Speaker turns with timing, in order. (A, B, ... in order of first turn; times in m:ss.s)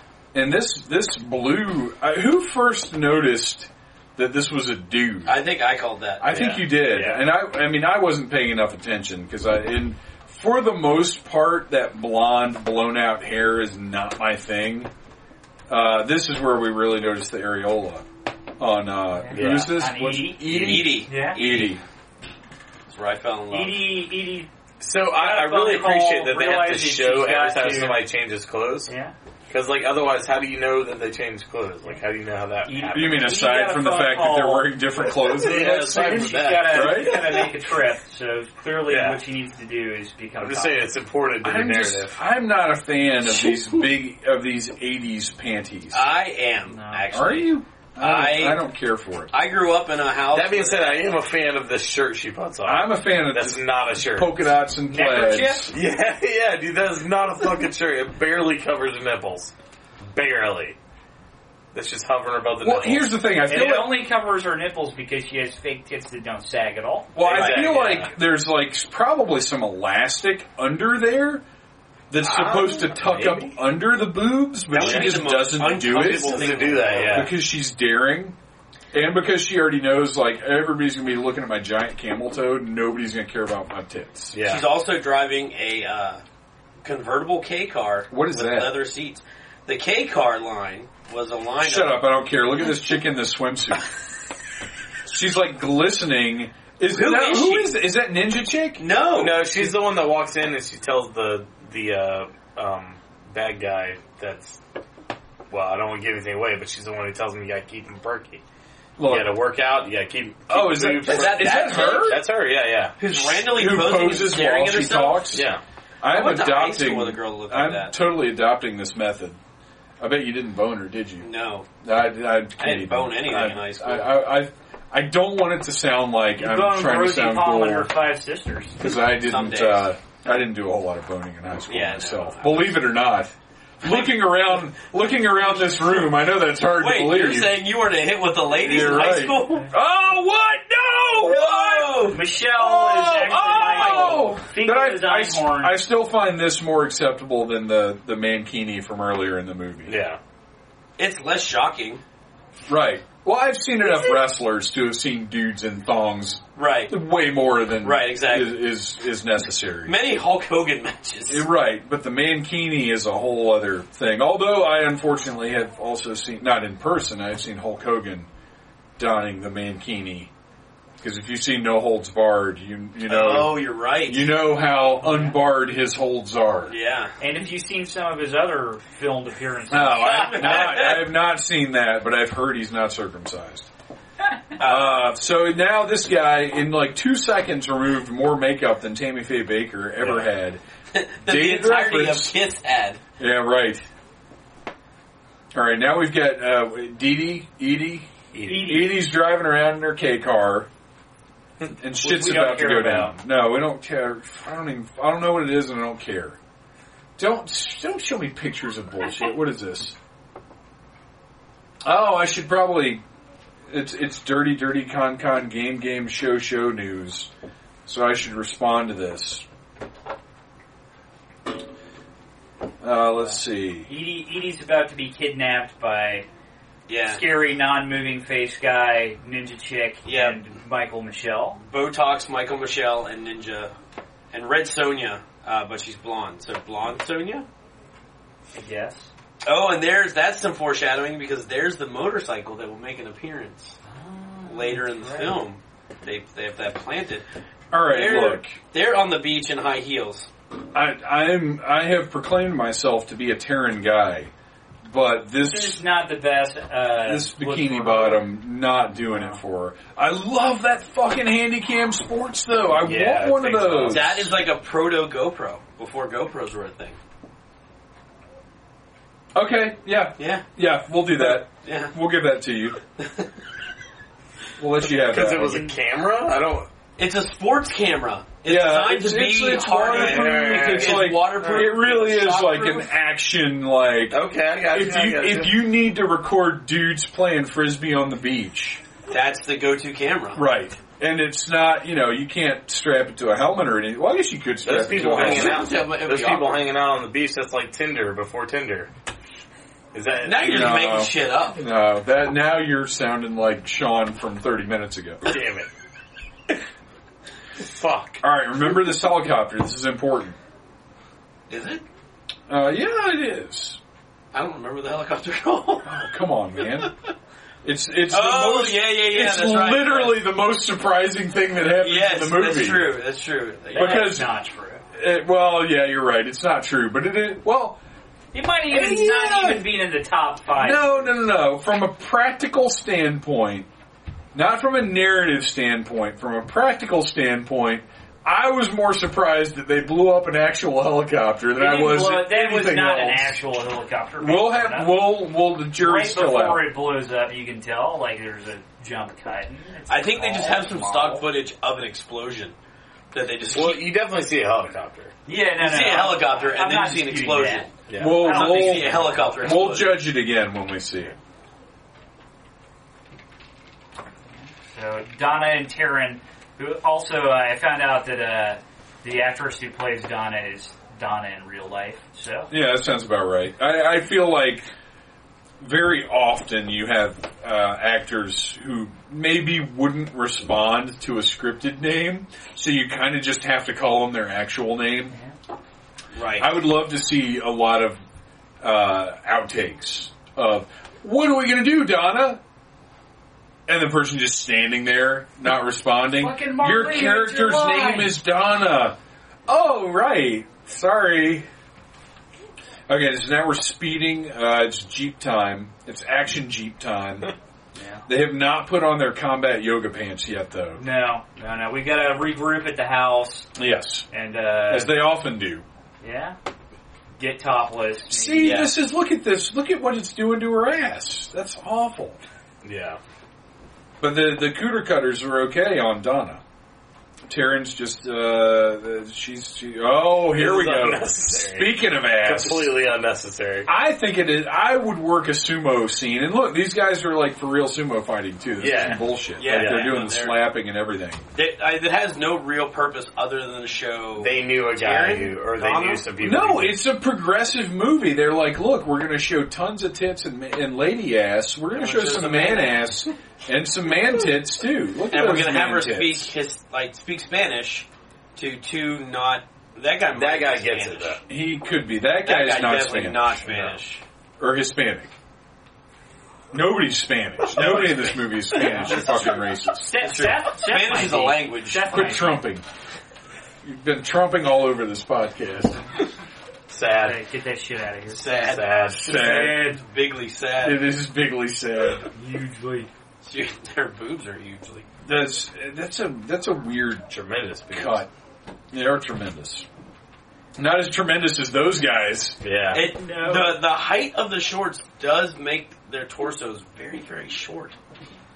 0:00.3-0:05.4 A
0:05.2-0:06.3 B
0:06.2-0:14.9 A
0:06.3-0:07.2 C
0:15.7-0:18.0 A
0:18.6-0:21.8 A
0:19.1-0:20.4 D
0:19.3-0:19.8 C
0:20.4-0:21.8 B
0:20.5-0:20.8 C
0:21.0-0:21.4 D
0:22.9-0:23.8 B
0:23.5-0:24.5 D
0:24.8-0:28.9 C
0:25.1-0:28.0 D
0:28.9-0:29.1 D
0:29.5-0:33.3 C
0:32.6-0:34.8 D
0:32.9-0:37.4 A
0:35.2-0:37.5 C
0:35.4-0:40.9 D
0:38.8-0:39.2 C
0:40.4-0:42.2 C
0:41.4-0:46.0 A
0:45.9-0:48.6 B
0:46.7-0:47.0 D
0:47.1-0:49.3 A
0:49.3-0:51.1 B
0:50.3-0:54.4 C
0:52.6-0:55.7 A
0:54.9-0:55.7 D
0:55.7-1:00.8 C
1:01.7-1:03.1 C
1:02.6-1:04.0 A
1:03.4-1:07.2 D
1:07.1-1:11.4 A
1:07.2-1:08.1 C
1:12.1-1:18.4 A
1:12.2-1:13.6 C
1:14.7-1:17.3 B
1:14.8-1:15.2 C
1:15.8-1:17.3 C
1:18.9-1:24.4 A
1:24.3-1:24.6 C
1:24.4-1:26.2 B
1:26.8-1:32.0 B
1:28.1-1:28.8 A
1:31.6-1:33.9 A
1:35.1-1:38.8 A
1:36.9-1:37.7 B
1:38.8-1:39.6 B
1:39.1-1:44.6 C
1:45.5-1:48.4 C
1:49.0-1:49.3 A
1:49.0-1:52.9 C
1:50.5-1:52.2 A
1:51.0-1:52.2 B
1:53.0-1:55.3 B
1:53.1-1:55.5 A
1:55.3-1:55.6 C
1:56.0-1:59.4 A
1:56.1-1:58.0 B
2:00.0-2:01.3 A
2:01.2-2:01.7 B
2:01.8-2:07.9 A
2:02.6-2:04.1 B
2:06.4-2:08.8 D
2:08.8-2:17.6 A
2:09.0-2:09.9 B
2:11.7-2:12.8 B
2:13.8-2:14.4 B
2:15.5-2:16.2 B
2:16.7-2:19.7 B
2:18.5-2:30.0 A
2:21.1-2:22.2 B
2:22.1-2:25.8 D
2:23.4-2:24.3 B
2:29.9-2:30.2 C
2:31.0-2:32.0 B
2:32.7-2:39.9 A
2:36.6-2:37.0 B
2:37.8-2:38.6 B
2:39.8-2:41.4 B
2:41.3-2:48.3 A
2:49.0-2:50.3 A
2:51.0-2:56.7 A
2:53.0-2:54.3 B
2:55.0-2:55.4 D
2:56.7-2:57.1 B
2:57.2-3:00.6 D
2:59.7-3:03.7 A
3:00.0-3:01.1 B
3:04.6-3:05.1 B
3:04.6-3:10.6 A
3:10.9-3:13.0 B
3:11.2-3:12.3 A
3:13.2-3:13.8 A
3:15.5-3:20.7 A
3:18.3-3:18.6 C
3:18.4-3:19.0 D
3:21.8-3:26.4 A
3:22.0-3:23.2 D
3:27.2-3:30.0 A
3:31.8-3:33.0 A
3:33.7-3:37.3 A
3:37.8-3:39.4 A
3:42.8-3:43.9 A
3:43.8-3:46.3 D
3:46.9-3:47.2 B
3:47.1-3:51.6 D
3:50.0-3:50.4 B
3:51.6-3:53.7 B
3:54.3-3:57.4 B
3:58.5-3:59.1 D
3:59.4-4:03.8 B
4:03.9-4:05.3 D
4:04.5-4:07.2 B
4:07.7-4:08.5 A
4:07.9-4:10.3 B
4:10.7-4:14.3 A
4:14.8-4:15.8 A
4:15.4-4:18.3 D
4:17.0-4:24.3 A
4:19.1-4:19.4 D
4:22.8-4:24.3 C
4:23.8-4:27.0 B
4:29.3-4:32.8 A
4:30.2-4:30.4 B
4:31.2-4:31.9 B
4:33.0-4:33.3 B
4:34.6-4:35.7 A
4:34.8-4:36.7 C
4:37.0-4:42.9 B
4:38.4-4:48.8 A
4:39.8-4:41.6 C
4:44.1-4:45.6 C
4:49.1-4:50.4 B
4:50.3-4:55.6 A
4:54.6-4:58.9 C
4:55.0-4:56.6 B
4:59.9-5:00.9 C
5:00.2-5:01.6 B
5:00.5-5:05.2 A
5:05.2-5:05.7 C
5:07.6-5:08.2 C
5:08.2-5:10.4 A
5:11.5-5:11.8 B
5:12.5-5:13.8 A
5:14.3-5:15.9 B
5:15.8-5:16.9 A
5:17.6-5:22.9 A
5:18.1-5:20.2 B
5:21.8-5:24.1 B
5:23.7-5:24.3 A
5:23.7-5:24.8 D
5:24.9-5:27.8 A
5:28.3-5:31.1 D
5:28.7-5:29.6 A
5:30.5-5:33.7 A
5:34.3-5:43.4 A
5:41.6-5:45.1 D
5:44.2-5:46.7 A
5:45.8-5:51.3 D
5:49.9-5:52.5 B
5:53.1-5:53.9 B
5:53.5-5:55.1 C
5:55.2-5:59.6 D
5:55.6-6:00.0 B
5:57.9-5:58.2 C
5:58.0-6:01.1 A
6:04.6-6:12.5 D
6:12.5-6:14.7 A
6:15.6-6:25.1 A
6:26.1-6:26.5 B
6:26.4-6:28.0 A
6:28.6-6:32.4 A
6:33.7-6:41.5 A
6:36.2-6:38.1 D
6:42.9-6:47.3 A
6:47.8-6:48.0 D
6:48.1-6:50.8 A
6:50.8-6:53.5 D
6:53.6-6:54.1 A
6:54.1-6:55.0 D
6:54.7-6:55.6 A
6:56.0-6:56.4 D
6:57.2-6:58.7 D
6:58.1-7:02.2 A
6:58.4-6:58.7 B
7:02.6-7:03.0 C
7:04.0-7:06.4 A
7:07.3-7:12.8 A
7:10.3-7:13.7 C
7:13.6-7:21.2 A
7:18.6-7:20.0 C
7:19.4-7:20.4 B
7:21.3-7:26.1 B
7:24.2-7:26.8 C
7:26.2-7:36.3 A
7:31.7-7:32.9 B
7:35.1-7:41.2 B
7:40.1-7:41.2 C
7:41.3-7:43.4 A
7:42.2-7:44.0 B
7:43.5-7:43.7 C
7:44.4-7:45.1 A
7:46.5-7:49.8 A
7:47.5-7:49.5 B
7:48.6-7:49.0 D
7:49.7-7:52.4 D
7:50.0-7:52.1 B
7:51.8-7:52.6 A
7:53.6-7:55.8 A
7:56.7-7:57.2 C
7:57.0-7:58.2 D
7:58.1-8:00.8 B
7:58.4-7:59.0 C
7:58.9-7:59.7 A
7:59.1-7:59.8 D
8:00.6-8:02.1 A
8:02.1-8:02.9 D
8:03.2-8:04.9 B
8:05.0-8:07.1 A
8:07.1-8:08.0 C
8:07.7-8:08.1 A
8:08.7-8:09.6 A
8:10.6-8:12.4 A
8:12.4-8:12.8 C
8:12.7-8:17.7 B
8:12.9-8:13.6 D